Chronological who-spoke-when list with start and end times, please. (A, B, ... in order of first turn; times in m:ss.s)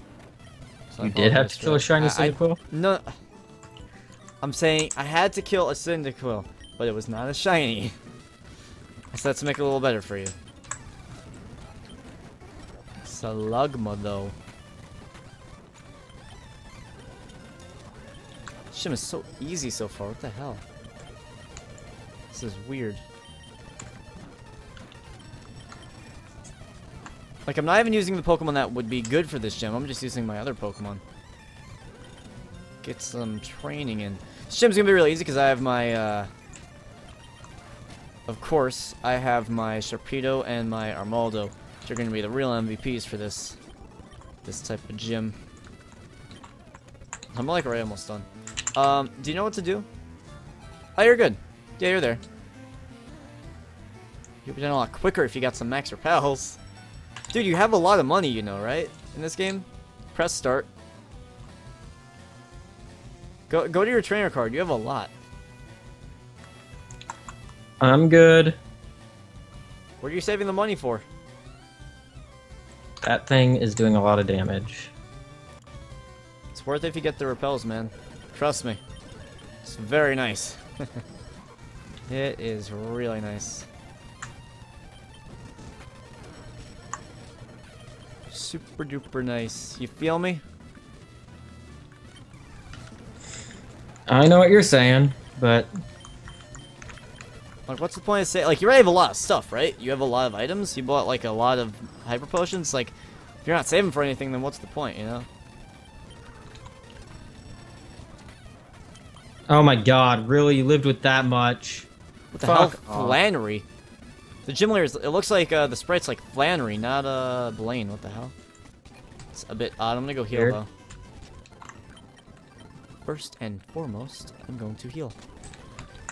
0:00.9-0:03.1 A
0:01.0-0:02.6 B
0:04.4-0:07.9 A
0:09.1-0:10.3 A
0:13.1-0:14.3 A
0:13.1-0:14.3 B
0:18.7-0:20.6 A
0:22.3-0:23.0 A
0:27.5-0:31.0 A
0:28.5-0:30.3 B
0:32.8-0:36.3 A
0:34.8-0:35.8 B
0:38.3-0:43.6 A
0:44.5-0:45.3 A
0:47.4-0:48.2 A
0:48.8-0:49.8 A
0:51.0-0:52.2 A
0:54.5-0:56.6 A
0:57.3-1:00.7 A
1:03.5-1:05.1 A
1:07.8-1:08.6 B
1:10.0-1:11.0 A
1:13.0-1:14.9 B
1:16.5-1:18.8 A
1:18.5-1:18.8 B
1:19.7-1:21.0 A
1:22.1-1:23.5 A
1:22.2-1:23.7 B
1:28.3-1:30.4 A
1:34.1-1:35.7 B
1:37.7-1:42.9 A
1:43.4-1:45.2 A
1:49.5-1:51.9 B
1:52.3-1:53.6 A
1:52.4-1:53.2 B
1:54.5-1:58.3 A
1:59.3-2:00.7 A
2:00.3-2:00.6 B
2:03.0-2:05.2 A